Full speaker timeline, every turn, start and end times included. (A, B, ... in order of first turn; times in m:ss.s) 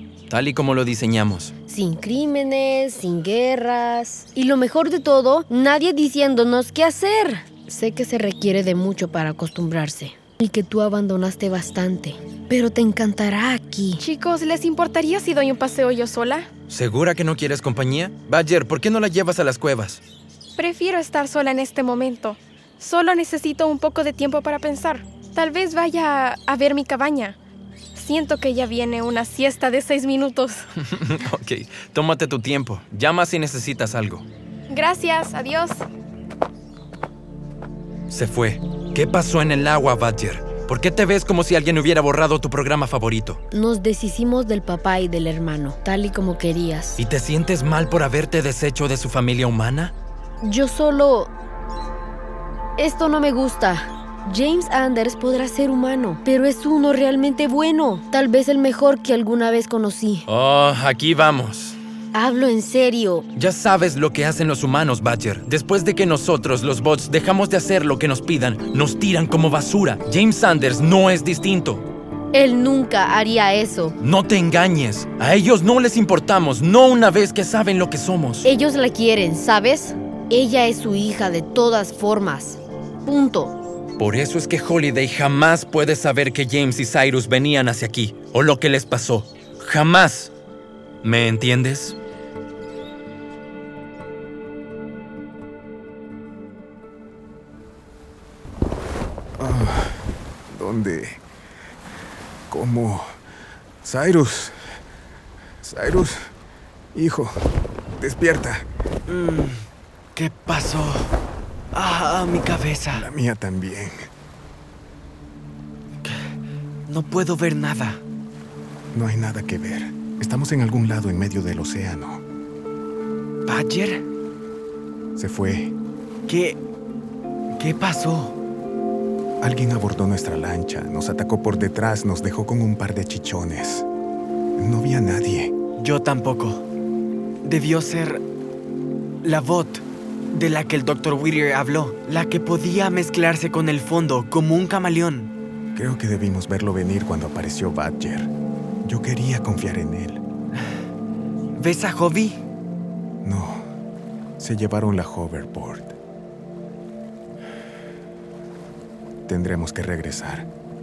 0:00.3-0:01.5 A
0:01.7-0:14.0 B
0:14.0-0:16.5 C
0:16.7-0:20.0 A
0:20.6-0:27.4 C
0:28.0-0:30.6 C
0:30.9-0:34.2 A
0:34.7-0:35.9 C
0:38.1-0:43.4 A
0:43.5-0:47.0 B
0:47.0-0:49.9 A
0:50.4-0:51.3 B
0:52.8-1:00.2 B
1:00.3-1:01.8 A
1:02.1-1:03.3 B
1:03.4-1:11.9 A
1:12.3-1:14.0 B
1:14.0-1:18.5 A
1:18.4-1:23.6 B
1:24.0-1:30.3 A
1:31.0-1:32.0 A
1:39.4-1:41.2 D
1:42.5-1:43.1 D
1:43.8-1:44.6 D
1:45.6-1:46.3 D
1:46.9-1:47.3 D
1:48.0-1:48.7 D
1:49.1-1:49.6 E
1:50.2-1:51.1 E
1:51.7-1:53.1 E
1:52.9-1:54.1 D
1:56.9-1:58.0 E
1:58.9-2:02.2 D
2:03.5-2:04.0 E
2:05.2-2:05.7 D
2:06.3-2:06.6 E
2:07.6-2:08.4 E
2:09.4-2:13.9 D
2:14.6-2:15.5 D
2:15.8-2:16.6 E
2:17.4-2:18.2 E
2:19.2-2:25.3 E
2:25.8-2:28.3 D
2:28.8-2:30.2 D
2:31.6-2:32.4 E
2:33.2-2:33.6 D
2:34.4-2:36.0 D
2:39.3-2:40.5 D